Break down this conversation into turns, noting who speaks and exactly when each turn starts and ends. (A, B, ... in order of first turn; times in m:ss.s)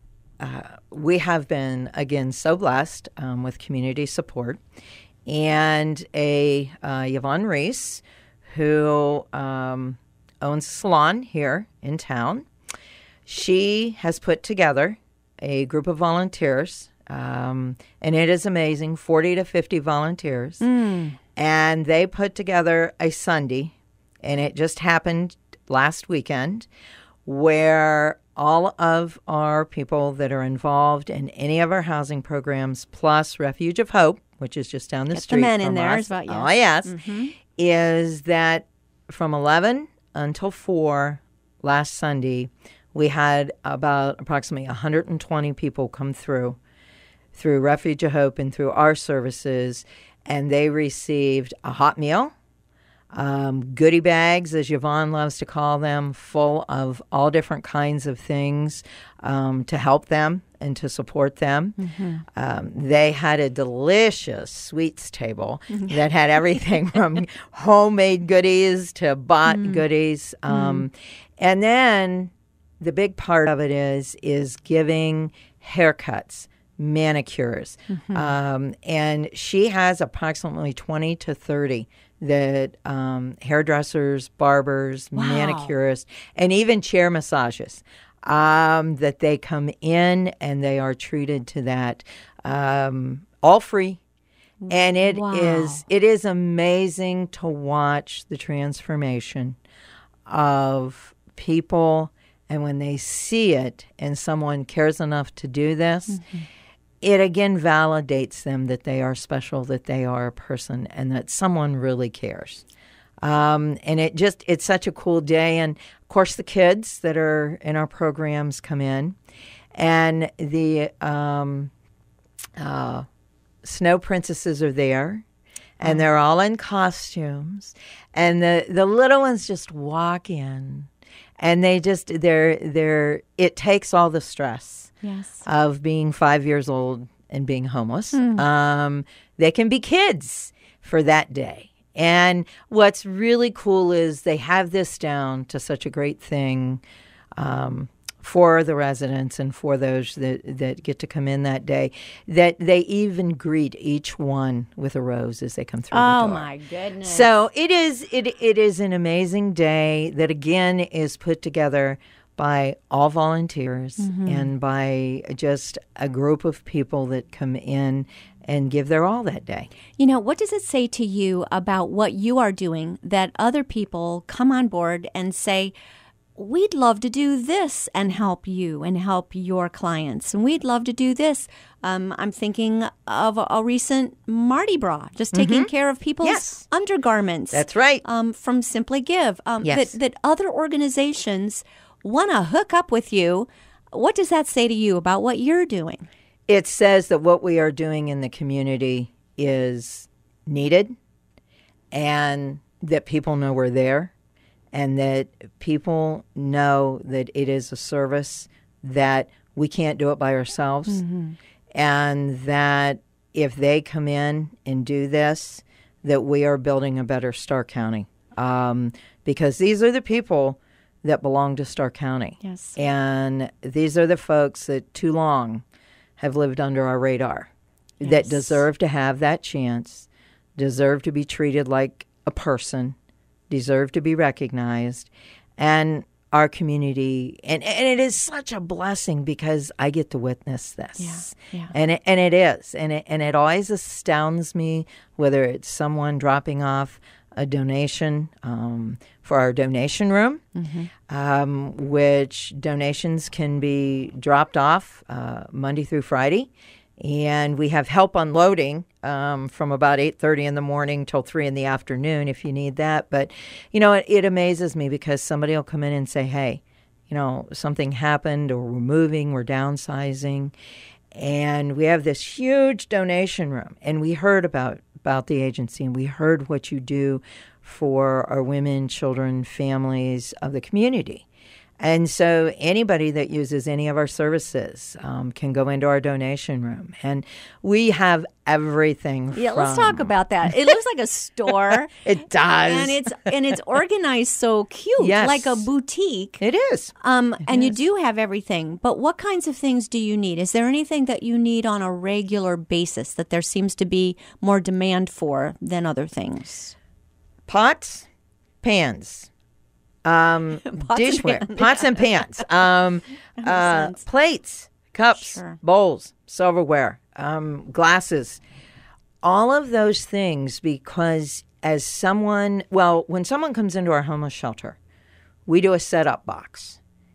0:00.4-0:04.6 A
0:05.3-0:12.5 A
0:13.3-0:20.6 A
0:20.6-0:21.2 B
0:21.4-0:26.7 A
0:27.2-0:37.0 A
0:35.1-0:37.3 B
0:37.6-0:46.6 A
0:47.3-0:52.3 A
0:53.1-1:01.8 A
1:01.8-1:02.2 B
1:02.3-1:34.0 A
1:09.5-1:09.8 B
1:10.5-1:10.8 B
1:17.9-1:18.3 B
1:25.1-1:25.7 B
1:34.6-1:35.8 B
1:34.7-1:39.6 A
1:40.3-1:46.2 A
1:46.1-1:46.4 B
1:47.0-1:52.6 A
1:53.2-1:59.2 A
1:59.8-2:01.7 A
2:02.6-2:03.0 A
2:03.6-2:05.2 A
2:05.8-2:10.9 A
2:11.4-2:14.9 A
2:15.0-2:15.4 B
2:15.4-2:26.8 A
2:18.1-2:18.4 B
2:27.4-2:36.5 A
2:35.9-2:37.3 B
2:37.0-2:49.7 A
2:44.0-2:44.5 B
2:50.0-2:55.7 B
2:56.4-3:16.1 B
3:05.3-3:05.7 A
3:06.2-3:06.6 A
3:07.5-3:08.0 A
3:09.6-3:10.0 A
3:16.5-3:20.9 A
3:21.9-3:24.1 A
3:24.7-3:31.0 A
3:30.9-3:31.4 B
3:31.7-3:45.6 A
3:42.4-3:42.8 B
3:46.2-3:53.0 A
3:48.0-3:48.6 B
3:53.5-4:10.4 A
4:01.0-4:01.7 B
4:10.6-4:10.9 B
4:11.1-4:30.5 A
4:31.1-4:41.2 A
4:41.8-4:50.1 A
4:49.3-4:51.9 B
4:52.0-4:53.3 A
4:52.6-4:56.4 B
4:55.0-4:55.7 A
4:56.4-4:56.9 A
4:57.0-5:06.8 B
4:57.5-4:57.8 A
5:07.5-5:08.1 A
5:08.6-5:09.3 A
5:10.0-5:18.4 A
5:10.6-5:12.5 B
5:13.4-5:14.0 B
5:15.2-5:15.6 B
5:19.2-5:24.8 A
5:25.5-5:26.8 A